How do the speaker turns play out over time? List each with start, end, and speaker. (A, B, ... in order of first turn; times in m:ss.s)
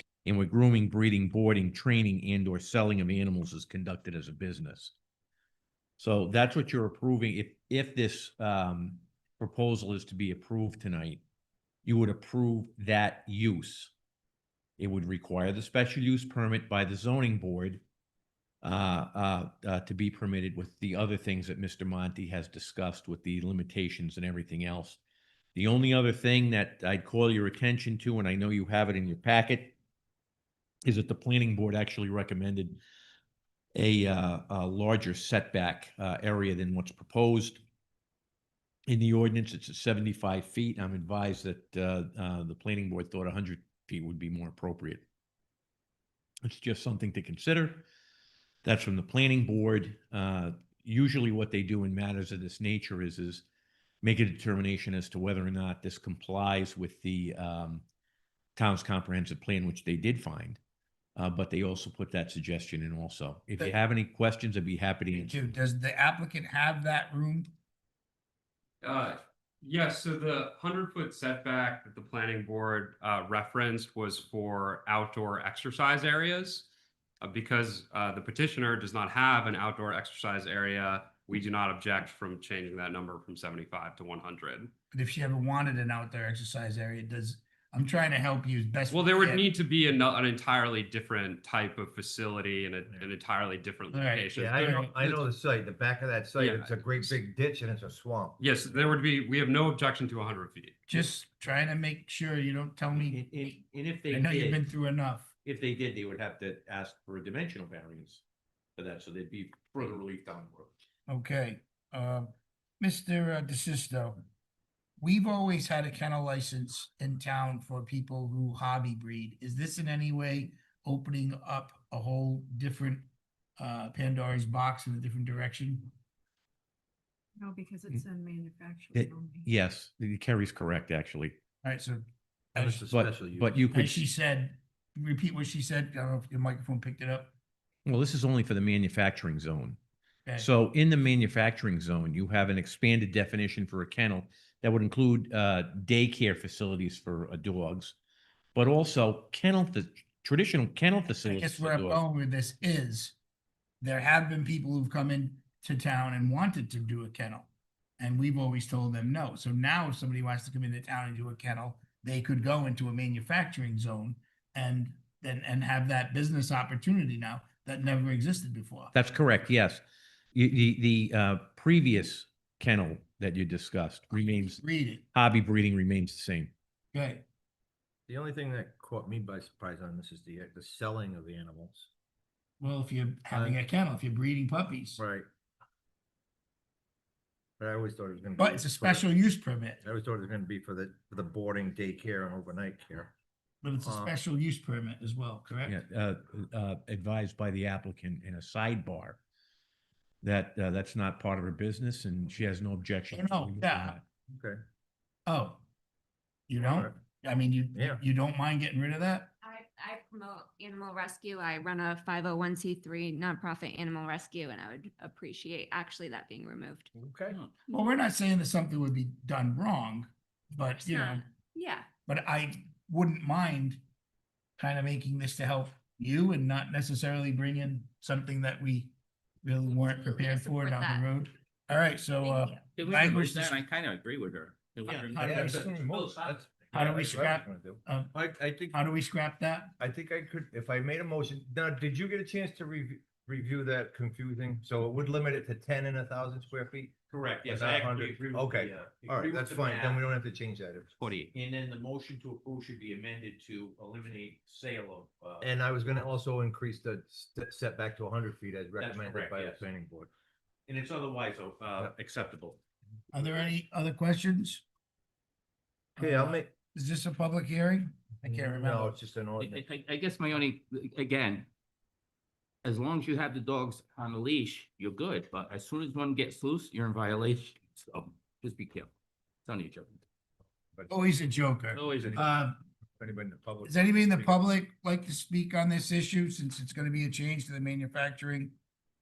0:00.2-0:04.9 A
0:06.0-0:11.2 A
0:11.8-0:13.9 A
0:14.8-0:17.8 A
0:18.6-0:25.0 A
0:25.5-0:29.7 A
0:30.8-0:32.8 A
0:33.7-0:37.6 A
0:38.9-0:45.0 A
0:46.4-0:47.8 A
0:48.6-0:53.4 A
0:54.0-0:57.8 A
0:58.6-1:00.6 A
1:01.2-1:05.4 A
1:05.1-1:07.5 B
1:08.8-1:16.7 C
1:17.2-1:24.7 C
1:24.9-1:29.4 B
1:28.9-1:34.8 C
1:33.9-1:35.2 B
1:34.3-1:38.9 D
1:36.4-1:37.2 C
1:38.4-1:40.8 C
1:40.9-1:43.3 B
1:43.0-1:44.6 A
1:44.1-1:45.3 B
1:45.4-1:48.2 A
1:48.8-1:50.7 A
1:51.1-1:54.2 B
1:55.0-2:03.0 B
2:03.6-2:05.9 B
2:07.4-2:09.5 E
2:08.9-2:11.4 A
2:11.6-2:12.0 B
2:12.5-2:12.9 B
2:12.6-2:13.6 D
2:12.9-2:14.0 A
2:13.7-2:17.3 B
2:17.8-2:19.8 A
2:20.4-2:27.9 A
2:28.5-2:32.0 A
2:31.2-2:33.2 B
2:33.8-2:37.5 B
2:38.0-2:48.9 B
2:48.9-2:49.8 A
2:50.3-2:54.6 A
2:54.6-2:55.0 B
2:55.1-2:56.5 A
2:56.9-2:57.2 B
2:58.1-3:01.9 D
3:02.6-3:05.0 B
3:03.3-3:03.6 D
3:05.0-3:05.3 D
3:07.6-3:09.1 D
3:08.4-3:09.8 B
3:09.8-3:13.1 D
3:13.6-3:15.8 B
3:13.8-3:14.1 D
3:15.6-3:19.2 A
3:20.2-3:24.0 A
3:23.1-3:24.0 B
3:24.3-3:24.6 D
3:25.3-3:25.6 B
3:26.5-3:29.3 B
3:26.6-3:27.0 D
3:27.7-3:28.0 D
3:29.4-3:36.9 F
3:36.9-3:37.4 D
3:37.7-3:41.2 B
3:40.8-3:41.9 F
3:42.1-3:43.8 B
3:44.6-3:48.9 B
3:49.4-3:53.6 B
3:49.7-3:51.0 F
3:52.2-3:52.6 F
3:52.8-3:56.4 G
3:54.9-3:55.7 B
3:55.1-3:58.7 D
3:56.7-3:59.7 B
3:59.8-4:10.9 D
4:07.1-4:10.0 A
4:11.0-4:11.3 G
4:11.3-4:16.0 A
4:15.4-4:20.1 D
4:18.8-4:19.6 A
4:20.7-4:22.6 A
4:23.1-4:24.6 B
4:26.0-4:28.9 B
4:26.0-4:26.5 D
4:28.2-4:29.6 D
4:29.4-4:31.5 G
4:32.6-4:38.9 G
4:39.5-4:39.9 G
4:40.9-4:42.6 B
4:41.7-4:42.2 G
4:42.0-4:42.2 D
4:43.0-4:44.4 D
4:43.6-4:48.5 B